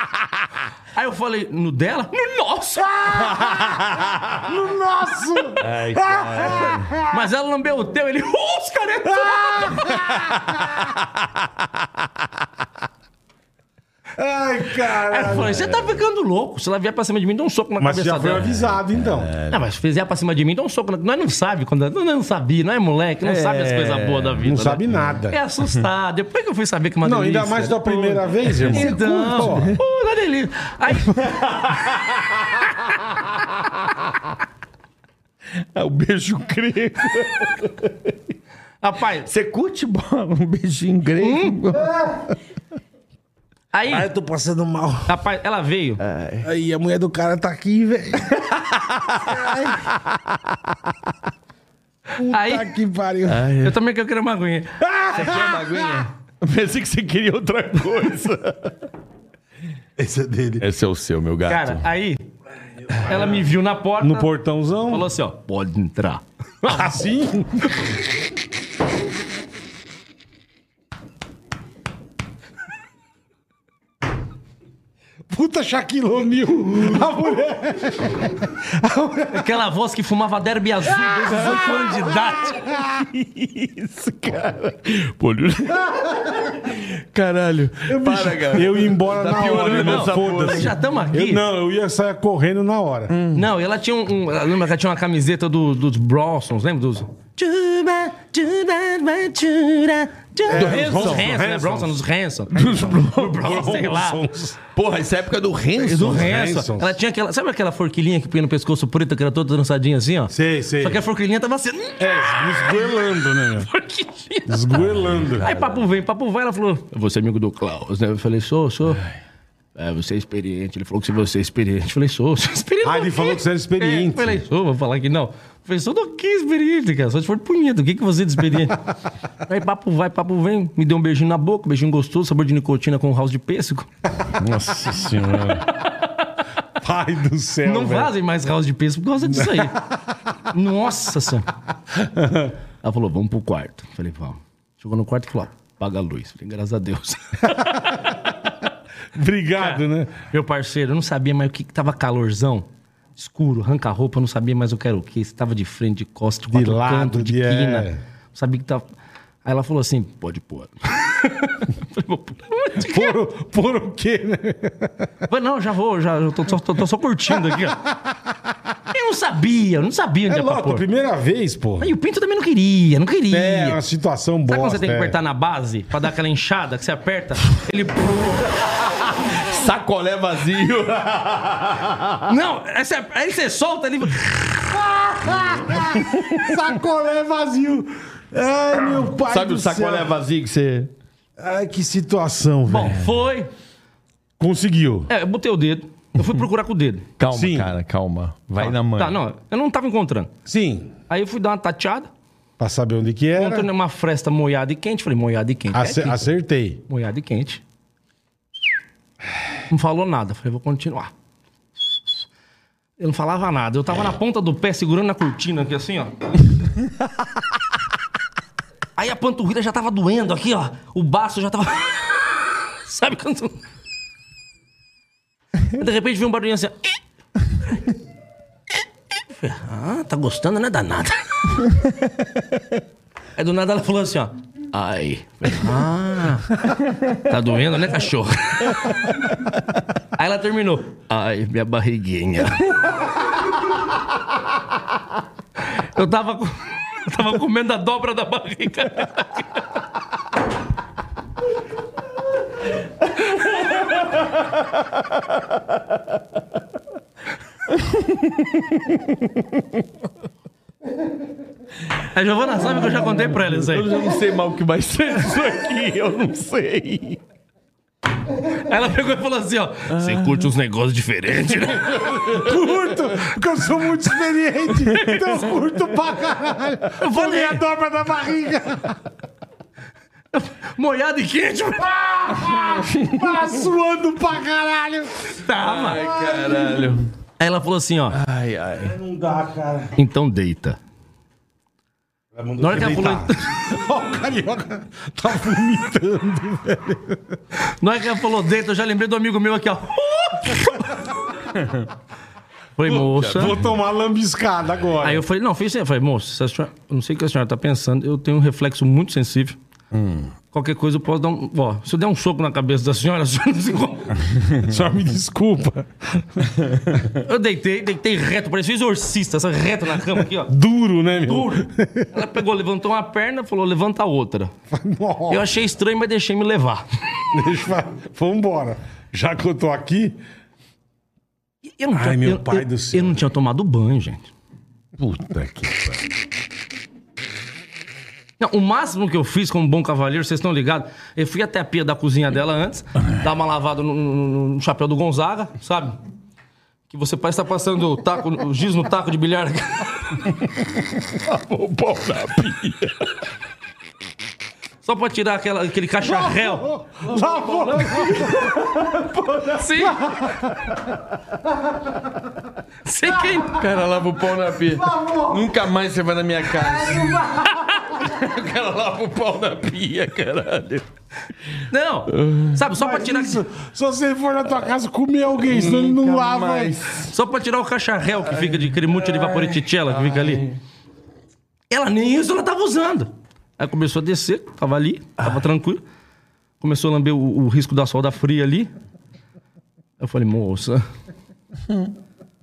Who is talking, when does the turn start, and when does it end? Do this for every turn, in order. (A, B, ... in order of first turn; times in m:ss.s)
0:00.9-0:03.4 A
0:03.0-0:07.2 B
0:03.1-0:04.5 C
0:05.6-0:06.9 C
0:07.0-0:10.1 A
0:09.1-0:10.9 B
0:10.2-0:11.3 C
0:14.2-0:15.6 B
0:15.0-0:18.4 A
0:17.8-0:19.3 B
0:18.3-0:19.6 C
0:19.5-0:31.7 A
0:23.2-0:24.6 C
0:24.4-0:25.4 B
0:27.0-0:29.8 B
0:28.4-0:29.8 C
0:31.2-0:34.0 C
0:35.7-0:38.2 C
0:38.8-0:39.3 A
0:39.2-0:42.1 C
0:41.2-0:41.6 A
0:43.7-0:44.1 A
0:43.9-0:45.2 B
0:45.1-0:46.0 A
0:46.0-0:46.5 C
0:46.4-0:48.6 B
0:48.6-0:50.4 C
0:49.2-0:49.8 B
0:52.1-0:53.5 B
0:52.3-0:52.8 A
0:53.2-0:53.8 C
0:53.6-0:54.8 A
0:54.8-0:56.1 B
0:55.1-0:58.8 C
1:00.0-1:00.6 B
1:00.6-1:01.8 C
1:01.5-1:02.3 A
1:03.0-1:04.3 A
1:04.0-1:05.1 B
1:04.9-1:07.0 A
1:06.7-1:07.8 B
1:15.3-1:19.4 B
1:19.3-1:22.6 A
1:20.8-1:23.1 B
1:21.3-1:22.2 C
1:22.8-1:30.7 C
1:27.8-1:33.1 B
1:29.4-1:31.4 A
1:33.1-1:33.5 C
1:33.3-1:44.2 A
1:40.5-1:42.0 B
1:40.5-1:41.3 C
1:42.5-1:43.5 C
1:42.6-1:44.6 B
1:44.7-1:46.3 C
1:45.8-1:46.9 B
1:45.8-1:54.8 A
1:50.3-1:51.0 B
1:52.0-1:53.7 B
1:54.5-1:55.5 B
1:54.8-1:55.8 C
1:55.4-1:59.0 A
1:59.8-2:08.9 A
2:02.8-2:04.4 B
2:09.4-2:13.9 A
2:14.3-2:15.7 C
2:15.7-2:16.4 A
2:16.8-2:18.1 B
2:17.6-2:19.8 A
2:19.3-2:20.0 B
2:20.5-2:21.5 A
2:21.9-2:22.5 B
2:22.8-2:28.3 A
2:27.6-2:28.1 B
2:29.1-2:30.2 B
2:29.6-2:38.9 A
2:36.5-2:38.0 B
2:39.4-2:43.2 A
2:42.8-2:45.1 B
2:45.3-2:47.8 A
2:47.4-2:48.3 B
2:48.9-2:50.8 A
2:50.3-2:51.9 B
2:51.8-2:53.8 A
2:53.3-2:55.2 B
2:54.5-2:58.9 A
2:59.3-3:02.3 C
3:02.2-3:04.8 A
3:04.7-3:10.1 B
3:05.4-3:06.5 C
3:09.0-3:10.9 C
3:11.4-3:13.1 B
3:12.7-3:13.5 A
3:14.4-3:15.1 B
3:15.1-3:17.1 A
3:17.2-3:19.2 C
3:17.3-3:17.7 B
3:18.6-3:20.3 A
3:20.4-3:20.9 B
3:21.1-3:22.1 A
3:22.6-3:23.7 B
3:23.4-3:26.3 A
3:25.7-3:26.8 B
3:26.9-3:27.6 A
3:29.7-3:31.1 A
3:33.0-3:36.1 A
3:39.0-3:43.6 A
3:45.7-3:47.0 A
3:49.3-3:51.6 A
3:53.4-3:59.0 A
4:00.2-4:02.9 A
4:05.8-4:09.7 A
4:13.8-4:14.2 C
4:17.7-4:19.4 C
4:22.1-4:24.0 A
4:23.5-4:27.2 C
4:28.4-4:32.2 A
4:29.9-4:30.5 C
4:31.9-4:39.0 B
4:32.1-4:32.4 C
4:34.9-4:35.3 A
4:37.0-4:37.6 A
4:40.3-4:42.6 A
4:41.8-4:45.4 B
4:42.6-4:43.1 C
4:45.3-4:46.0 A
4:45.6-4:47.1 C
4:45.9-4:47.0 B
4:47.4-4:48.2 A
4:48.1-4:49.0 C
4:48.8-4:49.9 B
4:50.0-4:50.8 A
4:52.3-4:57.4 B
4:52.6-4:53.5 A
4:57.6-5:01.1 A
5:01.5-5:01.9 C
5:02.8-5:03.6 A
5:02.9-5:03.5 C
5:03.2-5:05.2 B
5:05.0-5:09.6 A
5:09.9-5:10.3 C
5:10.5-5:14.2 A
5:14.6-5:16.5 B
5:16.6-5:17.0 C
5:17.1-5:20.5 A
5:20.4-5:22.1 B
5:21.2-5:24.5 A
5:24.7-5:25.5 B
5:25.3-5:26.8 A
5:27.3-5:30.2 B
5:31.8-5:34.3 A
5:31.9-5:33.2 B
5:35.0-5:36.0 C
5:38.4-5:46.0 A
5:46.9-5:50.2 A
5:50.3-5:53.2 C
5:54.8-5:56.8 A
5:56.1-5:58.5 B
5:57.2-6:00.5 C
5:57.5-5:58.2 A
5:59.5-6:00.2 A
6:02.8-6:03.6 A
6:03.4-6:10.8 C
6:04.8-6:05.4 B
6:06.9-6:07.2 B
6:07.4-6:07.9 A
6:11.7-6:13.4 A
6:12.1-6:12.6 C
6:12.7-6:16.8 B
6:15.4-6:17.1 C
6:17.1-6:20.4 A
6:18.3-6:20.6 C
6:21.7-6:25.8 A
6:26.6-6:28.7 A
6:30.0-6:30.9 A